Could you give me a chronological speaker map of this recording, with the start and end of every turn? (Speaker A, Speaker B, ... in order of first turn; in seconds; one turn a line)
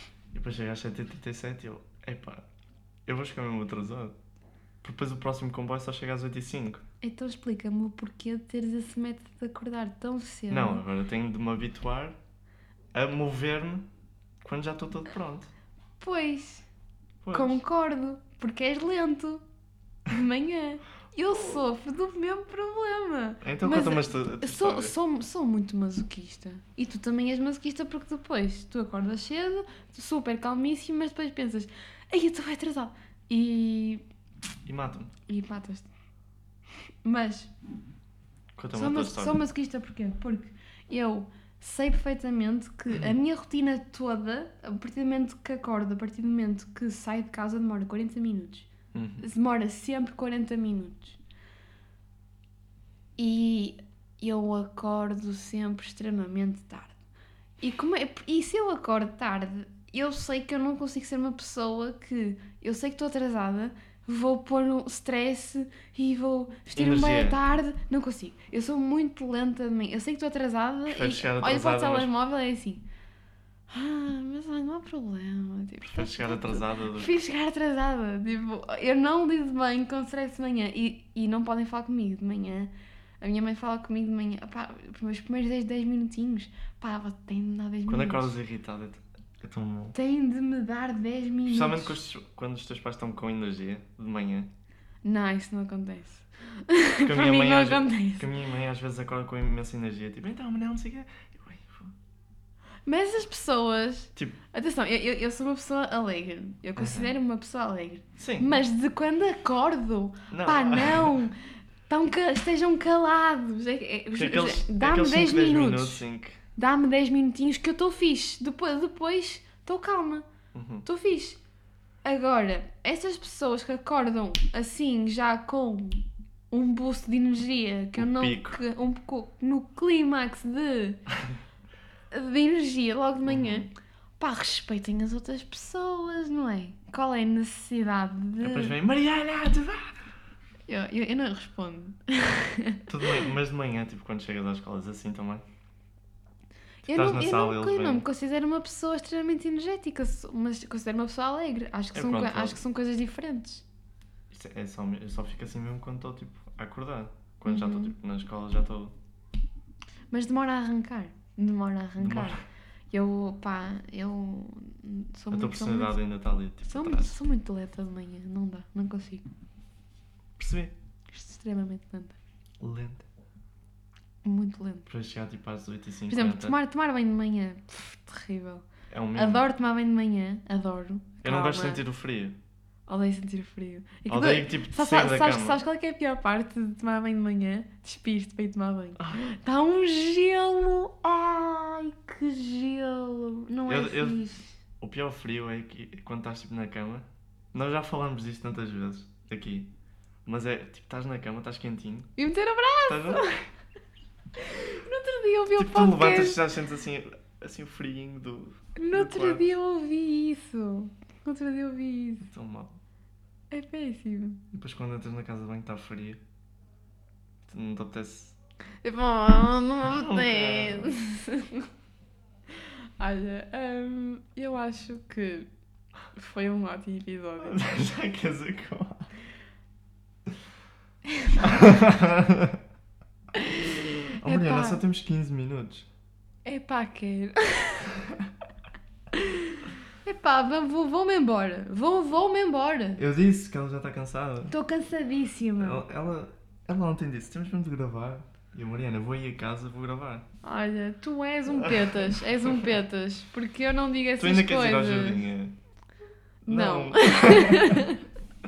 Speaker A: 0.3-2.4
Speaker A: 3.0-4.1
Speaker A: 4.8-6.8
Speaker B: 7.0-10.8
Speaker A: 10.5-12.2
Speaker A: 12.9-13.9
Speaker A: 14.4-15.5
Speaker B: 16.0-16.6
Speaker A: 17.2-17.6
Speaker B: 17.3-19.4
Speaker B: 20.1-34.0
Speaker A: 23.4-24.9
Speaker A: 34.6-35.1
Speaker B: 35.3-35.9
Speaker B: 37.0-37.5
Speaker A: 38.5-39.4
Speaker B: 38.7-48.7
Speaker A: 48.9-49.2
Speaker B: 49.2-51.2
Speaker B: 53.2-57.0
Speaker B: 57.6-72.8
Speaker A: 66.7-67.4
Speaker A: 70.9-72.1
Speaker B: 73.7-88.3
Speaker A: 75.8-77.1
Speaker A: 87.9-90.0
Speaker B: 89.9-92.0
Speaker A: 91.5-94.5
Speaker B: 95.0-98.3
Speaker A: 97.0-101.9
Speaker B: 102.9-111.4
Speaker A: 106.8-107.1
Speaker A: 108.2-108.5
Speaker A: 110.3-111.2
Speaker B: 111.9-116.0
Speaker A: 114.2-116.4
Speaker B: 116.5-120.2
Speaker A: 120.5-120.8
Speaker B: 120.8-121.4
Speaker B: 122.0-131.0
Speaker A: 128.0-128.6
Speaker B: 132.1-138.7
Speaker A: 133.2-133.7
Speaker A: 138.4-140.0
Speaker B: 140.7-143.3
Speaker A: 142.9-145.4
Speaker A: 146.9-148.0
Speaker B: 146.9-153.6
Speaker A: 151.9-152.6
Speaker A: 154.3-158.9
Speaker B: 157.4-157.9
Speaker B: 160.1-166.0
Speaker A: 162.0-162.4
Speaker A: 165.3-167.2
Speaker B: 166.6-169.2
Speaker A: 170.4-170.7
Speaker B: 171.1-172.2
Speaker A: 172.6-173.1
Speaker B: 174.2-174.9
Speaker A: 174.9-176.5
Speaker B: 176.1-181.8
Speaker A: 178.9-179.4
Speaker A: 181.2-182.4
Speaker B: 182.9-194.6
Speaker A: 184.1-185.6
Speaker A: 189.0-189.2
Speaker A: 193.7-194.2
Speaker A: 194.8-199.7
Speaker A: 200.2-202.1
Speaker B: 202.2-203.4
Speaker A: 202.8-203.4
Speaker B: 204.4-206.4
Speaker A: 205.6-209.5
Speaker B: 208.8-212.3
Speaker A: 212.2-212.8
Speaker B: 213.5-214.4
Speaker A: 214.5-216.2
Speaker A: 217.4-218.3
Speaker B: 218.8-221.7
Speaker A: 219.8-220.9
Speaker B: 222.6-225.5
Speaker B: 226.1-227.6
Speaker A: 227.4-229.1
Speaker B: 231.1-231.5
Speaker A: 231.3-232.6
Speaker B: 233.3-234.8
Speaker A: 234.2-235.9
Speaker B: 236.4-238.0
Speaker B: 239.1-243.0
Speaker A: 243.0-244.5
Speaker B: 244.5-245.8
Speaker A: 245.6-250.2
Speaker B: 250.4-255.3
Speaker A: 251.5-252.5
Speaker A: 254.2-255.5
Speaker A: 256.4-257.9
Speaker B: 256.5-258.0